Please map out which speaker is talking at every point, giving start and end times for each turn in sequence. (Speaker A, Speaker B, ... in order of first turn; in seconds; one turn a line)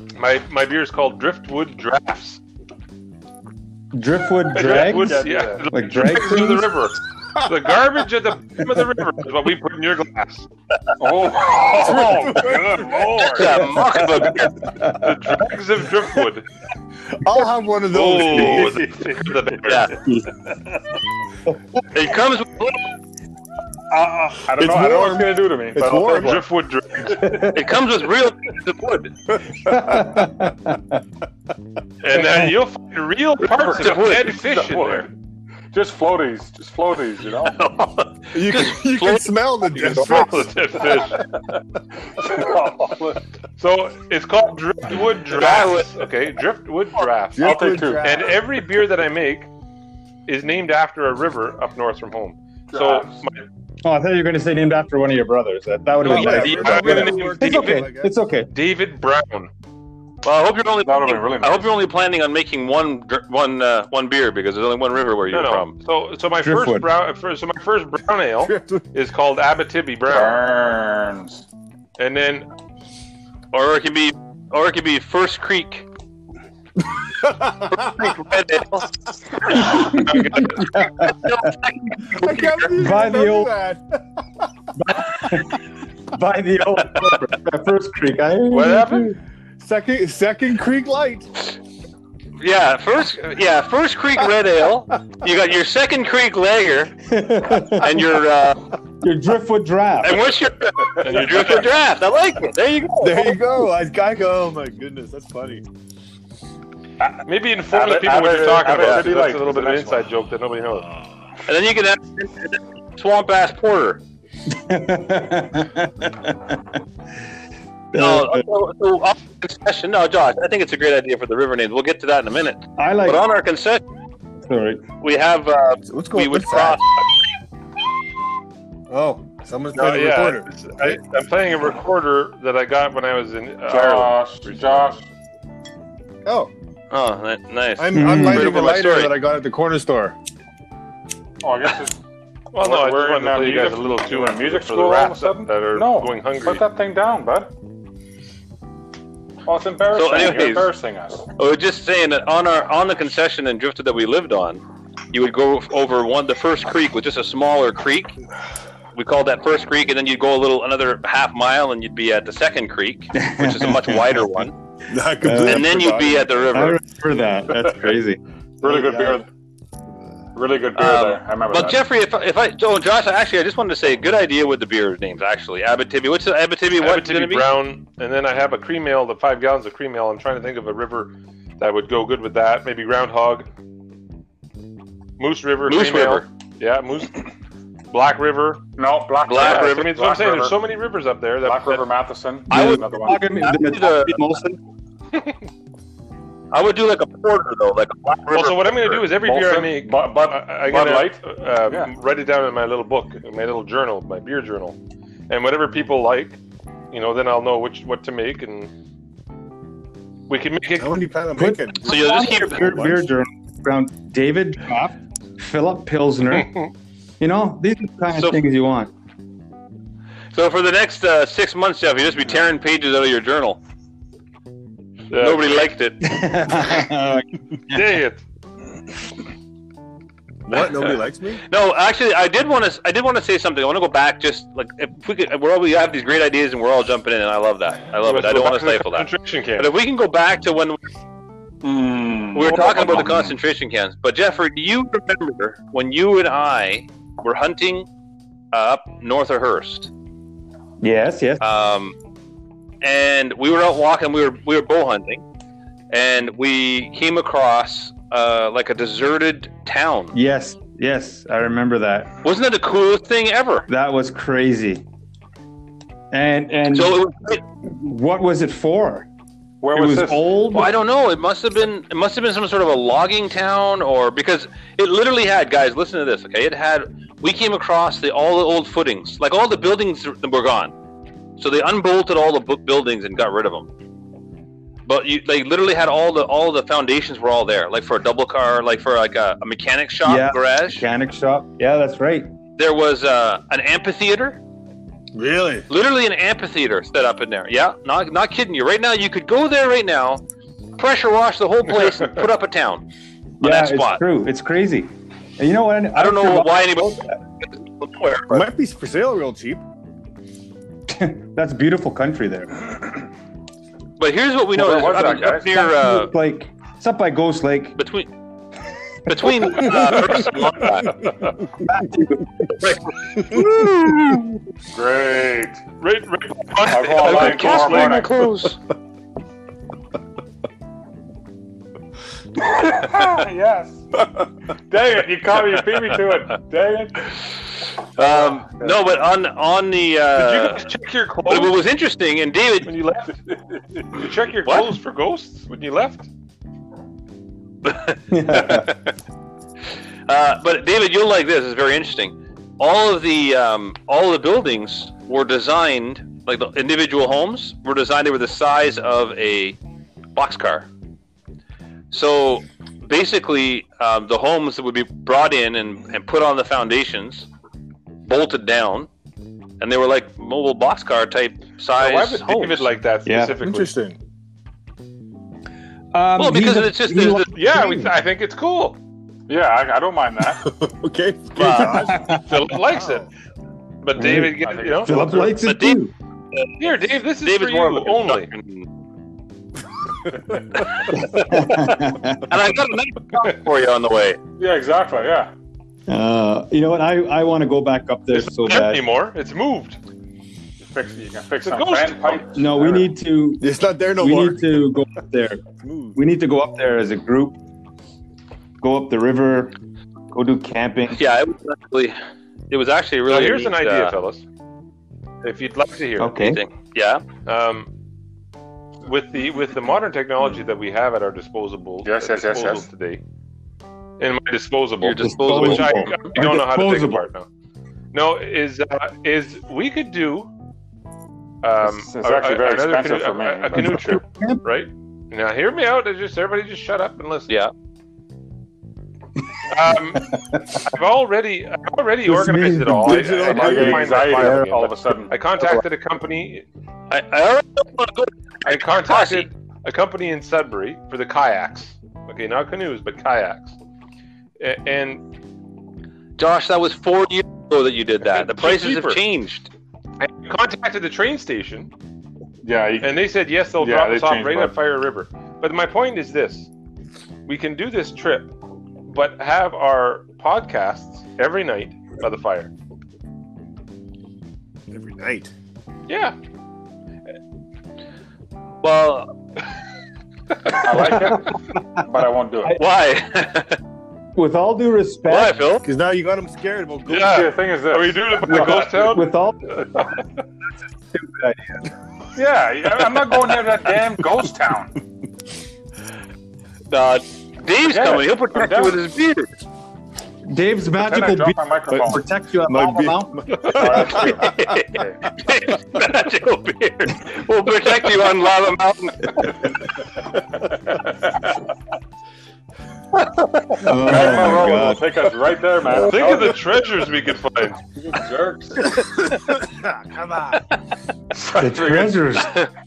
Speaker A: 0.1-2.4
Speaker B: 3.9-6.8
Speaker A: 4.5-10.5
Speaker C: 4.5-5.7
Speaker C: 11.0-13.8
Speaker D: 11.7-13.2
Speaker E: 13.2-14.6
Speaker B: 14.0-15.2
Speaker A: 14.9-16.5
Speaker D: 17.1-18.8
Speaker A: 17.9-20.0
Speaker C: 18.3-19.8
Speaker E: 19.7-20.0
Speaker E: 21.9-22.9
Speaker C: 23.9-26.4
Speaker D: 24.5-26.4
Speaker A: 26.2-27.5
Speaker B: 27.2-27.7
Speaker E: 27.4-29.1
Speaker D: 29.4-30.1
Speaker B: 29.6-31.0
Speaker A: 32.0-35.1
Speaker E: 33.6-34.4
Speaker C: 33.6-35.1
Speaker C: 35.7-37.6
Speaker E: 37.5-39.3
Speaker D: 38.3-40.6
Speaker A: 39.7-41.3
Speaker C: 42.2-43.2
Speaker A: 43.6-49.5
Speaker C: 45.4-45.9
Speaker D: 47.4-48.4
Speaker C: 47.4-48.2
Speaker A: 50.3-53.4
Speaker C: 52.7-53.2
Speaker B: 53.8-58.5
Speaker A: 56.0-57.9
Speaker D: 56.0-58.1
Speaker A: 58.5-59.5
Speaker E: 60.2-65.7
Speaker C: 60.8-61.7
Speaker A: 65.3-70.4
Speaker B: 66.4-66.9
Speaker D: 68.4-68.9
Speaker C: 70.1-71.4
Speaker A: 72.0-72.5
Speaker E: 73.5-75.9
Speaker D: 77.3-77.8
Speaker E: 77.5-78.9
Speaker E: 79.5-80.0
Speaker B: 79.7-81.5
Speaker A: 79.9-80.7
Speaker E: 81.0-82.7
Speaker D: 82.1-84.0
Speaker B: 82.7-83.5
Speaker B: 84.8-89.2
Speaker A: 88.5-89.1
Speaker D: 89.6-91.3
Speaker E: 92.4-96.9
Speaker B: 97.1-98.1
Speaker E: 97.8-98.7
Speaker B: 99.0-100.4
Speaker E: 100.0-103.5
Speaker A: 101.0-101.7
Speaker D: 103.0-105.7
Speaker C: 107.0-110.0
Speaker A: 107.3-110.9
Speaker E: 111.5-114.0
Speaker B: 114.5-116.6
Speaker B: 117.9-118.5
Speaker E: 117.9-123.8
Speaker B: 122.8-123.2
Speaker B: 124.5-124.8
Speaker E: 125.0-127.0
Speaker D: 125.9-126.8
Speaker D: 128.9-131.0
Speaker A: 129.8-134.9
Speaker C: 133.7-135.0
Speaker D: 136.2-136.5
Speaker E: 136.9-139.2
Speaker D: 137.8-140.2
Speaker B: 137.9-138.5
Speaker C: 141.4-142.0
Speaker A: 142.5-146.6
Speaker C: 142.6-147.5
Speaker C: 149.5-151.3
Speaker E: 149.9-150.7
Speaker E: 151.4-158.2
Speaker E: 158.9-164.6
Speaker B: 163.2-164.3
Speaker D: 164.9-166.7
Speaker B: 165.2-165.7
Speaker E: 165.4-166.8
Speaker B: 166.5-168.2
Speaker C: 168.6-169.3
Speaker D: 168.6-169.2
Speaker C: 170.3-171.8
Speaker E: 170.8-177.5
Speaker A: 176.8-183.5
Speaker A: 185.2-187.3
Speaker E: 185.7-186.3
Speaker A: 187.9-188.6
Speaker C: 188.8-190.6
Speaker E: 189.2-189.9
Speaker A: 189.3-191.9
Speaker C: 191.4-193.2
Speaker E: 192.5-194.2
Speaker B: 192.5-194.6
Speaker E: 196.5-199.1
Speaker A: 198.3-204.8
Speaker C: 199.2-201.9
Speaker A: 205.3-206.4
Speaker A: 206.9-208.7
Speaker A: 210.3-211.0
Speaker D: 210.8-213.1
Speaker B: 211.4-216.6
Speaker E: 211.8-212.7
Speaker B: 217.2-218.9
Speaker E: 218.2-218.4
Speaker E: 220.3-223.6
Speaker A: 225.1-225.7
Speaker E: 225.1-226.1
Speaker B: 226.0-227.8
Speaker A: 227.7-228.2
Speaker D: 230.5-231.4
Speaker E: 231.5-240.8
Speaker A: 238.0-239.7
Speaker C: 241.6-243.4
Speaker E: 242.3-247.9
Speaker E: 248.5-249.9
Speaker B: 250.8-251.4
Speaker E: 251.4-252.0
Speaker E: 252.8-255.2
Speaker E: 255.9-260.2
Speaker B: 260.1-262.1
Speaker E: 262.2-263.7
Speaker B: 263.7-264.9
Speaker B: 266.1-267.0
Speaker E: 266.7-267.4
Speaker B: 267.6-269.1
Speaker C: 269.6-270.3
Speaker B: 269.7-270.7
Speaker E: 270.5-280.7
Speaker E: 281.4-283.7
Speaker E: 284.9-290.9
Speaker B: 290.0-292.3
Speaker E: 292.6-294.4
Speaker D: 295.1-295.7
Speaker E: 295.7-300.2
Speaker E: 300.8-302.9
Speaker B: 303.4-307.2
Speaker E: 303.4-304.0
Speaker E: 305.9-308.5
Speaker D: 308.3-309.6
Speaker B: 310.9-312.8
Speaker E: 314.0-316.1
Speaker C: 314.5-315.6
Speaker B: 315.5-317.8
Speaker E: 317.8-318.1
Speaker E: 319.1-321.0
Speaker B: 319.2-319.8
Speaker B: 321.6-322.6
Speaker E: 322.6-324.2
Speaker C: 324.7-325.6
Speaker A: 325.8-328.1
Speaker C: 326.6-328.2
Speaker E: 327.0-328.6
Speaker C: 332.4-333.8
Speaker C: 334.7-337.1
Speaker E: 338.0-340.6
Speaker C: 338.0-338.8
Speaker A: 340.1-341.6
Speaker E: 341.3-342.7
Speaker A: 342.6-343.2
Speaker A: 343.9-346.1
Speaker E: 344.5-344.7
Speaker E: 347.6-348.9
Speaker B: 348.1-348.7
Speaker E: 350.1-359.6
Speaker E: 360.1-360.7
Speaker E: 361.9-367.3
Speaker E: 368.0-368.9
Speaker E: 369.6-372.7
Speaker A: 371.8-373.7
Speaker B: 373.1-373.4
Speaker D: 373.4-374.0
Speaker B: 375.9-377.9
Speaker E: 376.2-377.3
Speaker A: 377.3-378.8
Speaker C: 379.3-380.5
Speaker D: 380.4-383.1
Speaker E: 381.4-382.0
Speaker B: 381.8-382.3
Speaker A: 382.2-383.1
Speaker A: 383.8-385.1
Speaker B: 384.0-385.9
Speaker C: 384.4-385.3
Speaker E: 385.4-386.6
Speaker A: 386.6-388.3
Speaker E: 387.2-388.7
Speaker E: 390.6-394.2
Speaker B: 391.1-392.2
Speaker C: 394.4-395.3
Speaker B: 395.9-398.8
Speaker A: 398.1-399.8
Speaker C: 400.6-402.9
Speaker A: 401.4-402.2
Speaker B: 402.3-403.5
Speaker D: 403.4-404.6
Speaker B: 404.0-405.4
Speaker D: 405.6-406.0
Speaker B: 405.9-407.4
Speaker B: 408.6-409.6
Speaker B: 410.1-411.0
Speaker E: 410.9-412.0
Speaker E: 412.5-413.9
Speaker A: 413.1-414.2
Speaker A: 415.2-416.2
Speaker B: 416.0-416.4
Speaker E: 416.2-417.1
Speaker A: 417.2-417.7
Speaker A: 418.8-423.0
Speaker C: 421.9-422.7
Speaker A: 424.0-427.3
Speaker E: 424.8-425.9
Speaker B: 425.0-427.1
Speaker A: 427.9-430.3
Speaker A: 431.4-437.3
Speaker C: 431.6-434.0
Speaker B: 433.6-434.4
Speaker A: 439.5-446.4
Speaker B: 440.1-440.5
Speaker B: 442.1-443.2
Speaker D: 442.8-444.1
Speaker C: 443.2-445.1
Speaker B: 443.9-444.7
Speaker E: 446.9-449.3
Speaker A: 448.4-453.6
Speaker A: 454.4-455.0
Speaker E: 456.2-459.5
Speaker A: 458.1-459.0
Speaker A: 460.0-461.7
Speaker C: 462.4-464.6
Speaker A: 462.8-466.5
Speaker A: 467.3-468.3
Speaker A: 468.9-472.5
Speaker D: 474.7-475.3
Speaker A: 475.9-476.2
Speaker E: 478.6-479.1
Speaker C: 480.5-482.6
Speaker B: 480.9-481.2
Speaker E: 482.6-483.6
Speaker B: 484.1-485.4
Speaker E: 485.1-485.7
Speaker D: 485.6-487.3
Speaker A: 486.9-489.9
Speaker C: 487.0-488.9
Speaker B: 488.2-489.7
Speaker B: 490.9-491.7
Speaker C: 492.1-494.8
Speaker E: 496.7-499.4
Speaker C: 497.7-498.8
Speaker B: 500.3-503.7
Speaker C: 500.8-502.0
Speaker D: 502.5-504.5
Speaker C: 503.4-505.0
Speaker E: 503.7-509.4
Speaker C: 513.5-516.6
Speaker B: 513.6-515.0
Speaker A: 515.7-517.6
Speaker C: 517.8-518.8
Speaker D: 519.1-520.5
Speaker C: 521.2-522.0
Speaker B: 521.3-522.5